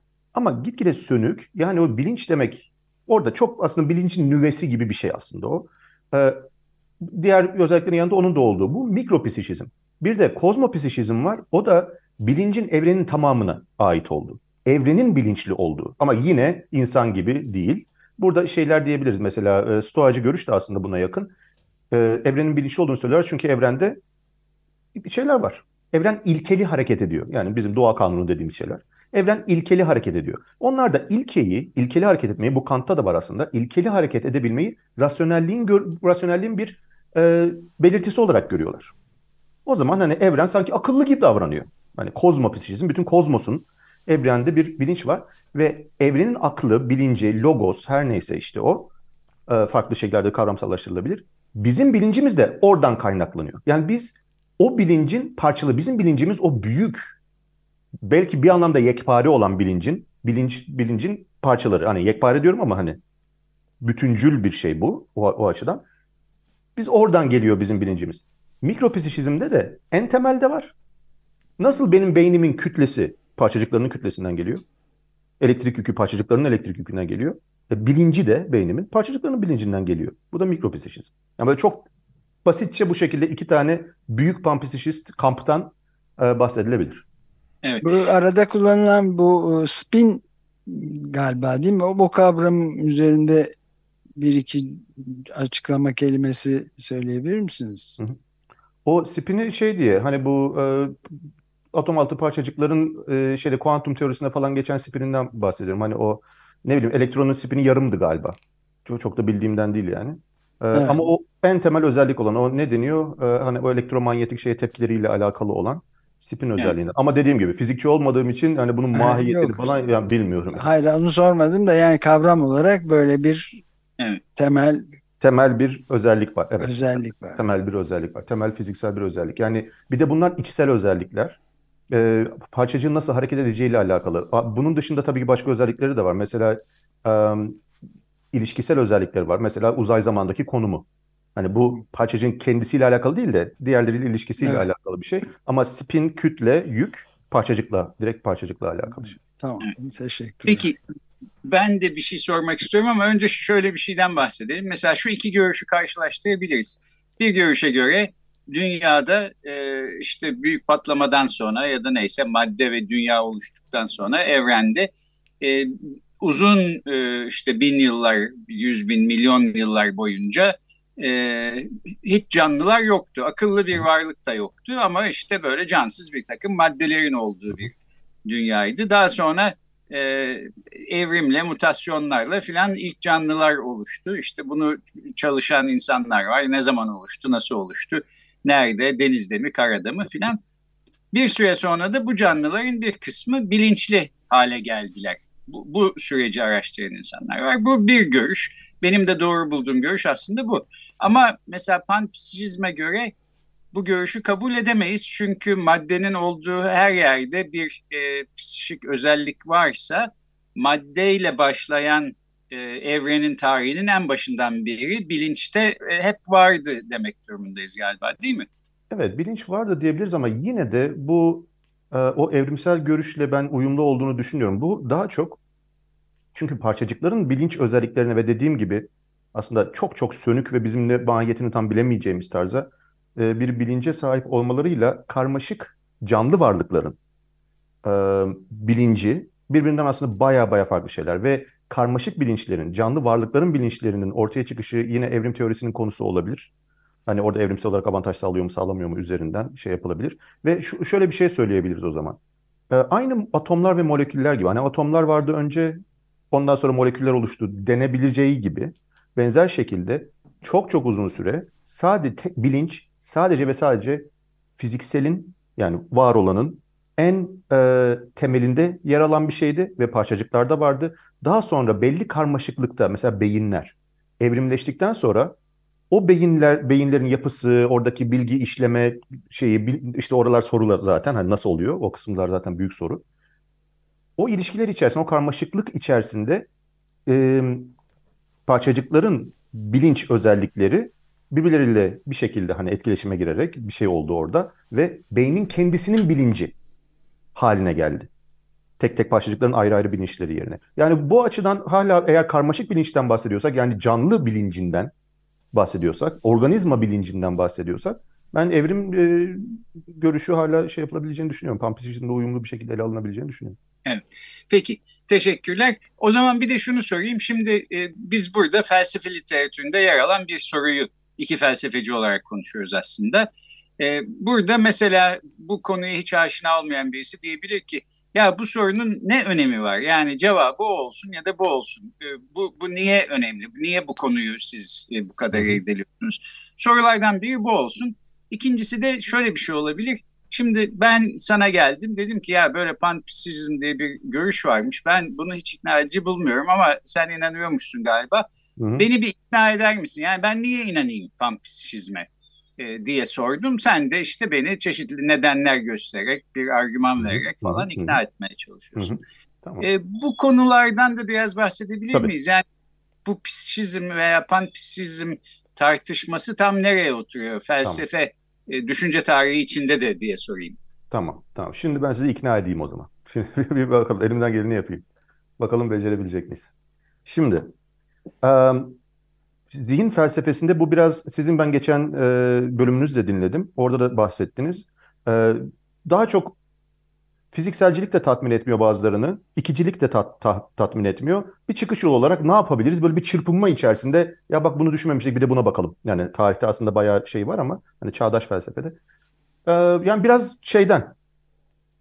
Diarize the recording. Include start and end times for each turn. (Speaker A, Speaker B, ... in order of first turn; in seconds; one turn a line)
Speaker A: 0.3-6.4
Speaker A: 7.0-21.3
Speaker A: 21.9-24.0
Speaker A: 24.9-38.9
Speaker A: 39.6-48.9
Speaker A: 49.5-57.1
Speaker A: 58.0-63.0
Speaker A: 63.8-65.8
Speaker A: 66.8-70.7
Speaker A: 71.6-74.6
Speaker A: 75.4-81.9
Speaker A: 82.4-87.0
Speaker B: 87.6-88.0
Speaker C: 87.8-93.5
Speaker C: 94.2-98.0
Speaker A: 98.8-101.2
Speaker A: 101.7-120.7
Speaker C: 110.7-111.0
Speaker C: 118.9-119.8
Speaker C: 120.5-123.6
Speaker C: 124.4-124.9
Speaker A: 125.2-131.4
Speaker C: 126.6-127.5
Speaker A: 131.9-137.6
Speaker A: 138.3-149.2
Speaker C: 149.4-150.7
Speaker B: 150.5-150.8
Speaker B: 151.4-164.9
Speaker B: 165.4-177.7
Speaker B: 178.2-190.4
Speaker B: 191.1-203.1
Speaker B: 203.7-218.5
Speaker A: 218.9-225.4
Speaker A: 226.3-237.0
Speaker A: 237.8-246.5
Speaker A: 247.1-252.2
Speaker A: 252.7-255.8
Speaker A: 256.3-275.4
Speaker A: 275.9-283.0
Speaker A: 284.2-286.5
Speaker A: 287.1-287.8
Speaker A: 288.5-296.5
Speaker A: 297.4-298.1
Speaker A: 298.8-304.9
Speaker A: 305.5-313.6
Speaker B: 313.9-348.2
Speaker A: 335.3-335.6
Speaker A: 348.6-348.9
Speaker B: 348.8-359.0
Speaker A: 357.0-358.0
Speaker A: 358.8-359.7
Speaker B: 359.6-362.4
Speaker B: 363.0-370.6
Speaker A: 370.9-374.9
Speaker A: 375.4-376.5
Speaker A: 377.1-377.5
Speaker A: 378.2-378.8
Speaker A: 379.5-386.4
Speaker A: 387.3-398.8
Speaker A: 399.5-400.9